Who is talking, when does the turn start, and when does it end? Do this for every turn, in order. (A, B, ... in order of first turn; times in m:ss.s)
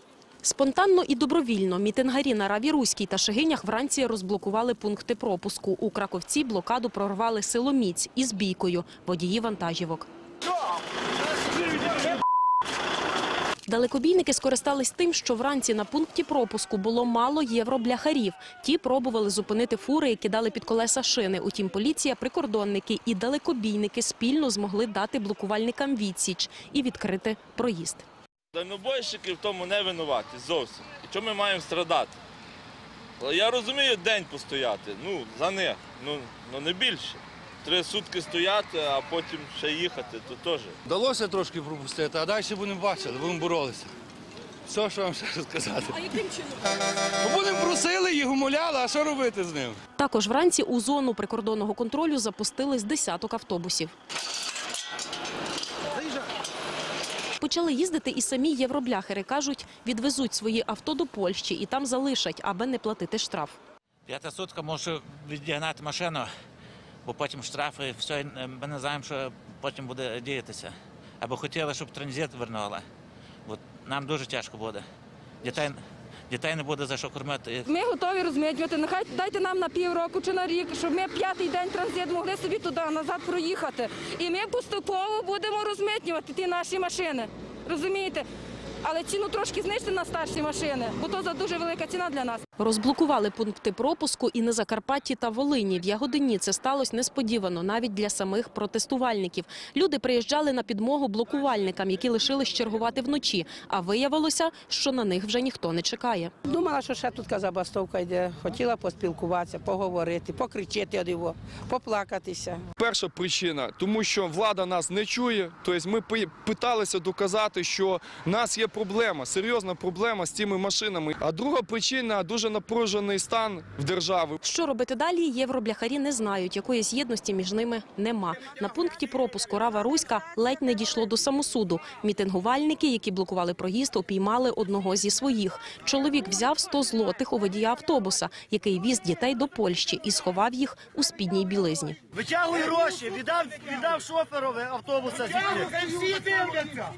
0:00.4-0:10.1 A
0:13.7-0:28.0 A
0:28.5-0:32.1 B
0:33.2-0:40.7 B
0:40.8-0:43.9 C
0:44.7-0:46.4 C
0:47.2-0:49.8 C
0:50.0-0:53.9 A
0:57.4-1:03.6 A
1:04.0-1:06.3 D
1:07.0-1:12.8 D
1:13.4-1:14.8 D
1:15.4-1:17.6 D
1:17.6-1:28.2 E
1:28.8-1:32.4 E
1:32.6-1:46.3 A
1:46.4-1:52.6 F
1:52.8-2:04.4 G
2:04.4-2:22.0 A
2:22.1-2:26.6 H